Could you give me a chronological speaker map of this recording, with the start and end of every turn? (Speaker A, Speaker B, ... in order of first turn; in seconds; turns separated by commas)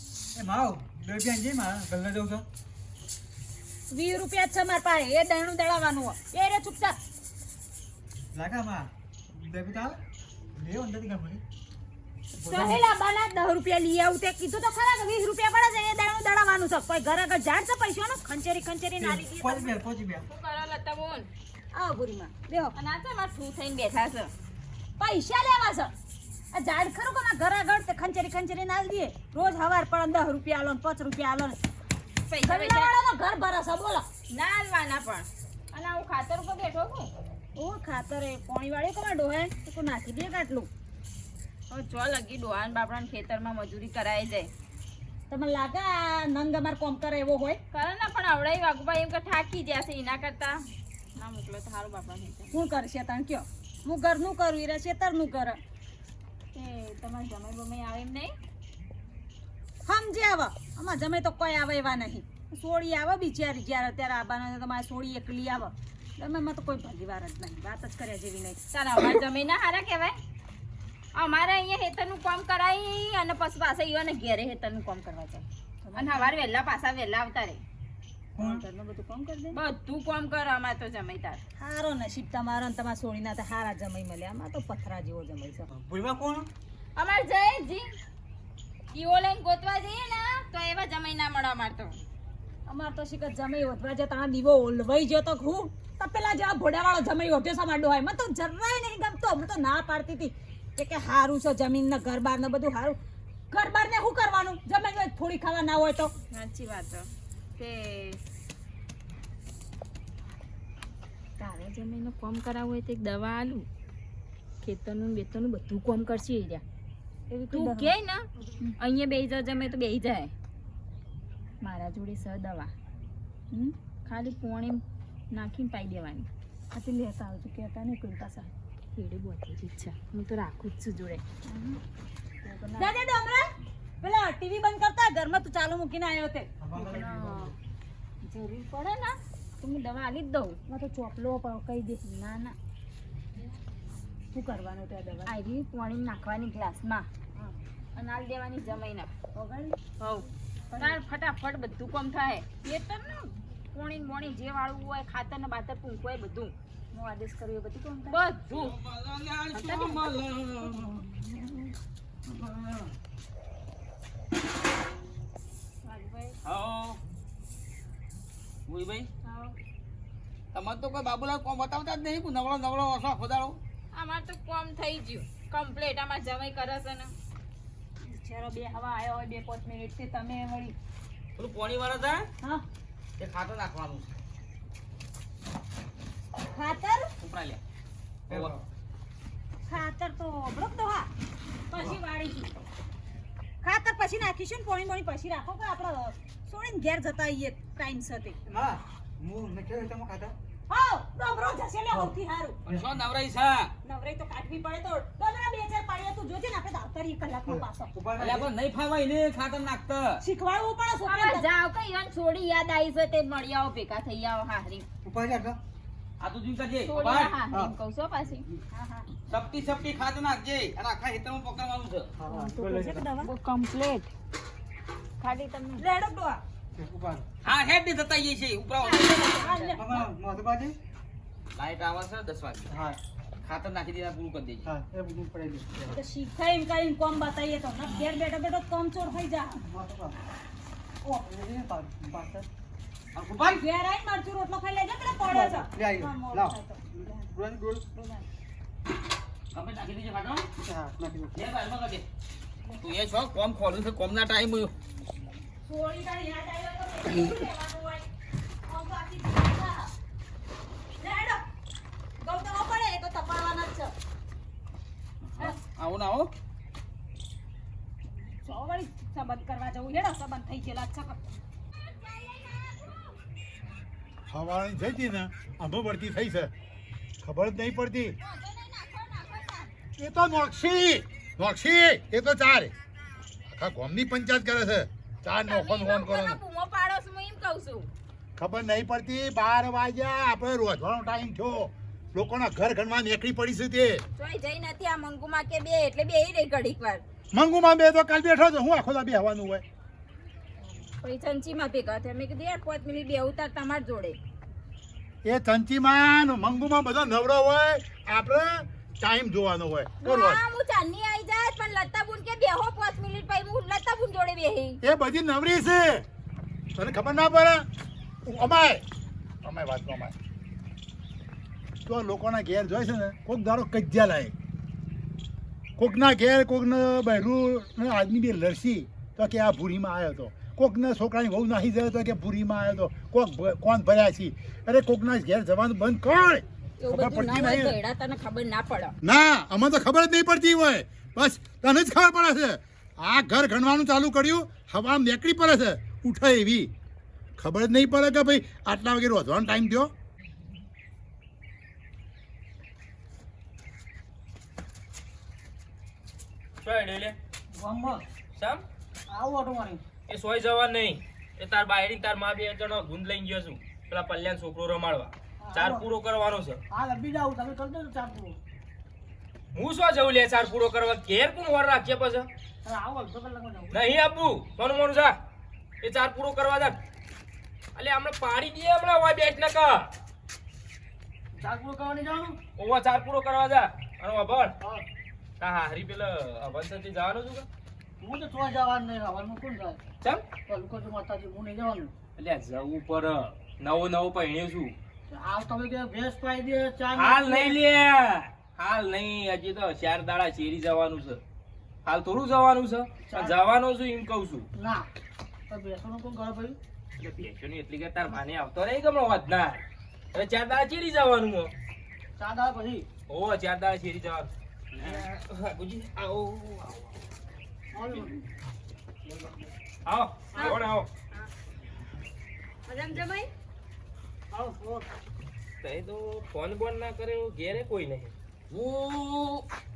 Speaker A: 0.3-2.4, Speaker B: 3.9-7.0, Speaker A: 8.3-10.0, Speaker A: 10.6-11.4, Speaker A: 12.4-12.8, Speaker B: 12.4-19.8, Speaker A: 19.0-20.2, Speaker C: 20.3-21.3, Speaker B: 21.7-22.7, Speaker C: 22.7-24.3, Speaker B: 25.0-25.9, Speaker B: 26.5-31.6, Speaker C: 32.3-32.9, Speaker B: 32.4-34.0, Speaker C: 34.3-37.1, Speaker B: 37.5-40.7, Speaker C: 41.7-44.5, Speaker B: 45.3-47.6, Speaker C: 47.7-50.6, Speaker C: 51.1-52.5, Speaker B: 52.5-55.6, Speaker C: 56.5-58.3, Speaker B: 59.9-68.6, Speaker C: 68.7-70.1, Speaker C: 71.1-77.6, Speaker B: 75.8-76.4, Speaker A: 78.3-78.6, Speaker B: 78.4-79.6, Speaker C: 79.5-81.4, Speaker B: 81.6-85.7, Speaker A: 85.7-86.5, Speaker C: 87.0-87.8, Speaker C: 88.9-92.0, Speaker B: 92.7-103.0, Speaker B: 103.5-106.1, Speaker C: 106.3-108.2, Speaker C: 111.4-113.7, Speaker C: 114.6-116.6, Speaker B: 117.3-117.9, Speaker C: 117.5-118.2, Speaker C: 118.8-120.3, Speaker C: 121.6-122.7, Speaker C: 124.0-124.8, Speaker C: 125.3-126.3, Speaker B: 126.7-128.5, Speaker C: 128.9-131.7, Speaker B: 132.4-133.4, Speaker B: 134.0-136.5, Speaker A: 136.6-137.5, Speaker C: 136.8-137.5, Speaker C: 138.2-140.6, Speaker B: 140.7-142.5, Speaker B: 144.3-145.3, Speaker C: 145.2-147.1, Speaker C: 147.9-149.1, Speaker B: 149.3-149.8, Speaker C: 150.0-156.5, Speaker B: 150.7-151.0, Speaker B: 156.9-158.2, Speaker C: 158.1-158.7, Speaker D: 158.5-161.1, Speaker C: 159.5-160.1, Speaker D: 162.3-162.9, Speaker C: 165.8-166.4, Speaker D: 166.4-167.0, Speaker D: 168.7-169.1, Speaker D: 170.5-173.6, Speaker C: 173.9-177.1, Speaker B: 178.0-180.7, Speaker D: 181.4-182.3, Speaker D: 183.2-184.1, Speaker B: 186.5-187.1, Speaker D: 187.2-187.6, Speaker A: 188.3-188.6, Speaker B: 189.7-191.1, Speaker B: 191.7-192.5, Speaker B: 193.6-198.4, Speaker A: 198.5-200.3, Speaker B: 200.7-202.6, Speaker D: 202.7-203.7, Speaker B: 203.8-207.9, Speaker A: 207.5-208.5, Speaker D: 208.2-210.2, Speaker B: 210.2-211.5, Speaker C: 211.0-214.8, Speaker A: 215.0-215.6, Speaker D: 216.2-217.4, Speaker C: 216.8-218.4, Speaker A: 217.5-217.7, Speaker B: 218.7-219.1, Speaker D: 219.3-222.1, Speaker A: 222.2-223.1, Speaker B: 222.3-223.3, Speaker C: 223.2-224.1, Speaker C: 225.2-225.8, Speaker B: 225.8-226.4, Speaker A: 226.7-227.2, Speaker D: 227.4-229.3, Speaker C: 228.8-229.9, Speaker B: 229.1-230.1, Speaker A: 229.7-230.8, Speaker D: 231.5-232.7, Speaker A: 232.7-233.0, Speaker D: 233.4-234.7, Speaker A: 234.7-235.7, Speaker B: 235.9-239.6, Speaker A: 239.7-240.2, Speaker A: 241.0-242.4, Speaker D: 243.1-243.6, Speaker B: 243.4-247.3, Speaker A: 245.2-246.6, Speaker A: 247.2-247.8, Speaker B: 247.9-248.2, Speaker D: 249.5-250.5, Speaker A: 250.6-251.3, Speaker D: 251.3-252.0, Speaker D: 252.8-254.7, Speaker B: 255.6-258.0, Speaker B: 258.6-259.9, Speaker B: 261.0-261.4, Speaker B: 262.2-263.9, Speaker D: 265.2-266.3, Speaker B: 268.1-271.2, Speaker C: 271.8-273.1, Speaker E: 274.3-276.5, Speaker E: 277.2-278.1, Speaker C: 278.2-279.7, Speaker E: 280.0-282.7, Speaker E: 283.5-286.4, Speaker C: 285.5-287.9, Speaker E: 288.4-294.0, Speaker C: 294.2-297.0, Speaker E: 297.3-299.6, Speaker C: 301.0-304.2, Speaker E: 305.2-310.4, Speaker C: 310.0-314.8, Speaker E: 314.8-316.1, Speaker E: 316.8-317.6, Speaker E: 318.2-318.8, Speaker E: 319.4-320.1, Speaker E: 321.9-324.3, Speaker E: 325.8-337.7, Speaker C: 336.8-338.9, Speaker E: 339.0-346.7, Speaker E: 347.4-349.9, Speaker F: 356.6-357.1, Speaker A: 357.6-358.0, Speaker F: 358.3-358.6, Speaker A: 359.1-359.8, Speaker F: 360.1-366.6, Speaker A: 365.4-365.8, Speaker A: 366.7-368.3, Speaker F: 369.5-372.3, Speaker A: 372.7-373.7, Speaker F: 373.7-375.1, Speaker F: 375.8-376.8, Speaker F: 377.8-379.9, Speaker F: 382.6-384.5, Speaker F: 385.4-387.5, Speaker F: 392.2-394.7, Speaker A: 395.1-397.6, Speaker F: 396.9-401.2, Speaker F: 401.8-404.5, Speaker F: 407.0-409.6, Speaker F: 410.1-411.5, Speaker A: 412.2-412.8, Speaker F: 413.1-417.0, Speaker D: 414.8-415.0, Speaker A: 417.8-418.1, Speaker B: 417.8-418.1, Speaker F: 419.9-420.9, Speaker B: 422.7-423.3, Speaker A: 424.3-424.8, Speaker F: 425.6-428.1, Speaker D: 428.5-429.4